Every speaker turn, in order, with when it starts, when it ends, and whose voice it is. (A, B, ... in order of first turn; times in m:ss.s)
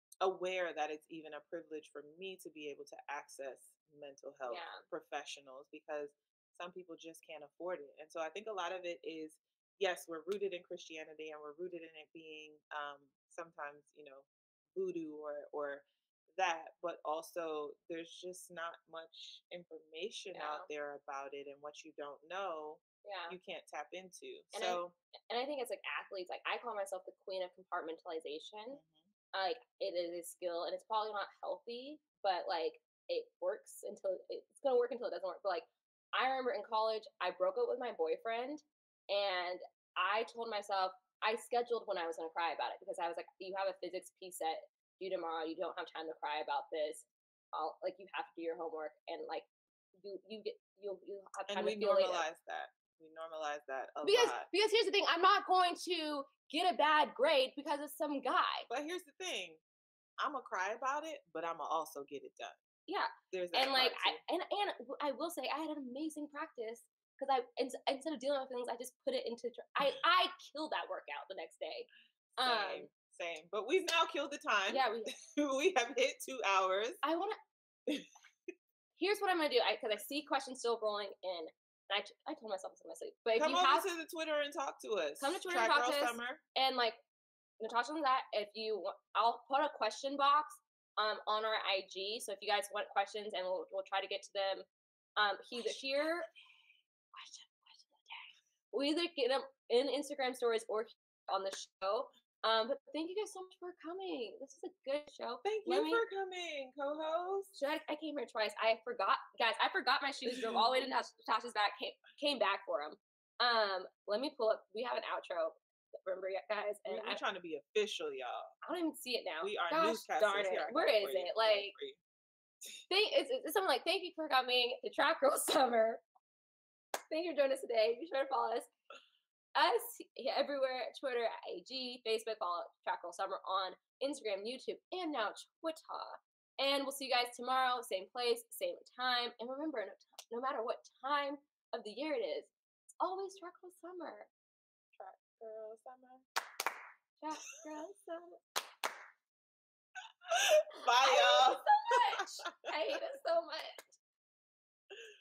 0:00.2-0:24.9 A
0:04.4-0:04.8 B
0:20.3-0:20.7 B
0:23.0-0:23.4 B
0:24.5-0:28.8 B
0:28.7-0:29.1 A
0:29.3-0:49.5 B
0:50.0-0:52.2 B
0:51.5-0:54.5 A
0:54.0-0:58.7 B
0:58.7-0:59.6 A
1:00.2-1:02.6 A
1:02.9-1:12.9 B
1:03.3-1:04.2 A
1:12.4-1:17.0 A
1:14.7-1:15.1 B
1:17.0-1:17.4 B
1:19.0-1:23.8 B
1:23.4-1:26.4 A
1:25.2-1:27.0 B
1:27.6-1:36.3 B
1:35.5-1:36.0 A
1:37.2-1:37.9 A
1:37.6-1:37.9 B
1:38.7-1:46.0 B
1:45.4-1:47.5 A
1:47.5-1:57.2 B
1:50.3-1:50.6 A
1:56.9-1:58.6 A
1:58.6-2:01.7 B
1:59.4-2:02.0 A
2:02.9-2:06.0 B
2:07.1-2:08.7 B
2:09.5-2:24.3 B
2:25.0-2:26.3 A
2:27.2-2:28.4 B
2:30.3-2:32.2 A
2:31.0-2:33.9 B